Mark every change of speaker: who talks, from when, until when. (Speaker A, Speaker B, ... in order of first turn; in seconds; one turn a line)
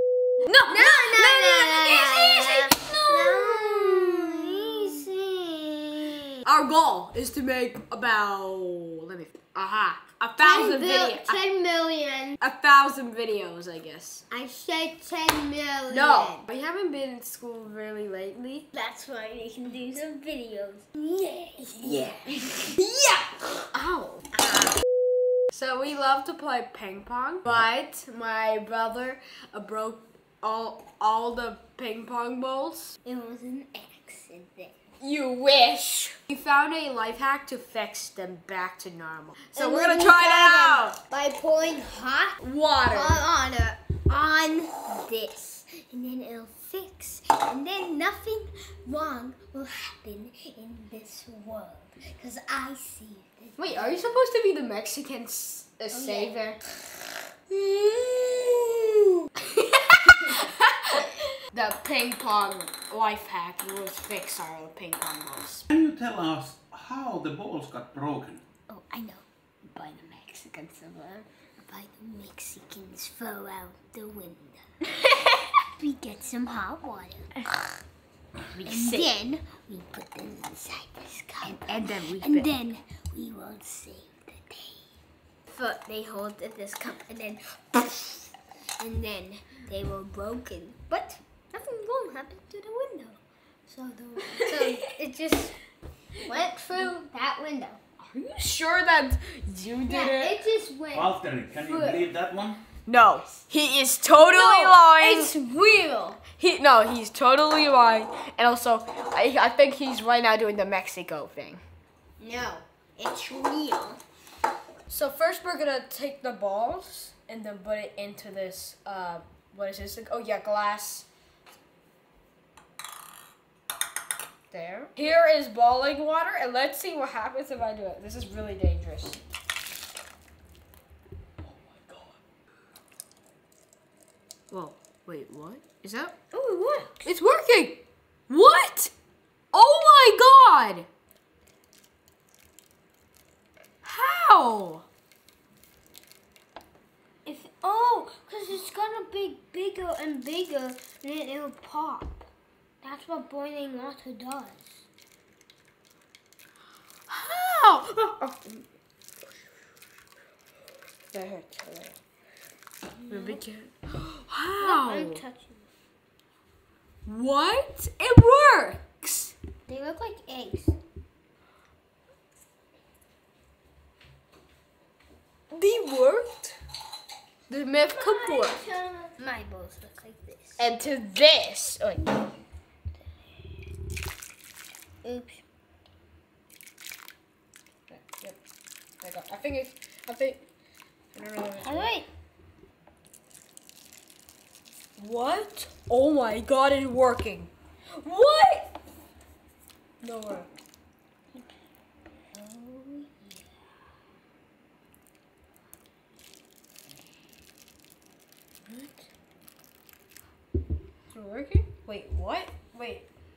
Speaker A: 0.4-5.0
Speaker B: 0.7-6.3
Speaker A: 6.4-11.4
Speaker B: 10.4-12.4
Speaker A: 12.4-14.2
Speaker B: 14.3-16.4
Speaker A: 15.9-18.6
Speaker B: 18.7-22.8
Speaker A: 21.7-24.3
Speaker B: 24.4-24.7
Speaker A: 25.5-33.0
Speaker B: 33.0-34.8
Speaker A: 35.0-41.0
Speaker B: 39.5-54.2
Speaker A: 42.4-43.2
Speaker A: 53.6-56.6
Speaker B: 55.9-56.5
Speaker A: 57.5-58.9
Speaker A: 59.8-65.7
Speaker B: 60.1-60.4
Speaker C: 65.7-68.4
Speaker B: 68.7-69.2
Speaker B: 69.7-74.7
Speaker B: 75.7-77.3
Speaker A: 78.5-79.1
Speaker B: 78.6-84.8
Speaker A: 81.4-82.5
Speaker B: 85.5-95.6
Speaker A: 94.4-94.8
Speaker B: 96.2-97.8
Speaker A: 98.1-100.4
Speaker B: 99.9-102.0
Speaker C: 100.9-102.6
Speaker A: 102.8-105.3
Speaker B: 104.2-106.2
Speaker A: 106.4-111.6
Speaker B: 112.2-114.0
Speaker A: 114.9-121.0
Speaker A: 124.5-129.2
Speaker A: 131.7-132.1
Speaker A: 134.5-136.1
Speaker B: 136.3-137.1
Speaker A: 137.0-138.9
Speaker A: 139.5-140.9
Speaker A: 143.8-144.8
Speaker B: 147.2-152.3
Speaker B: 152.8-154.8
Speaker A: 157.1-158.6
Speaker A: 161.1-161.9
Speaker B: 163.0-163.4
Speaker A: 163.1-165.2
Speaker B: 164.6-165.7
Speaker A: 167.1-169.3
Speaker B: 169.7-170.8
Speaker A: 175.5-176.5
Speaker A: 177.5-178.6
Speaker B: 177.9-180.7
Speaker A: 180.6-182.1
Speaker B: 185.0-185.4
Speaker A: 187.9-188.4
Speaker A: 189.0-190.4
Speaker A: 191.1-191.9
Speaker B: 191.6-192.1
Speaker A: 195.0-198.7
Speaker A: 200.0-200.5
Speaker B: 202.3-203.4
Speaker A: 208.7-209.0
Speaker A: 211.1-213.1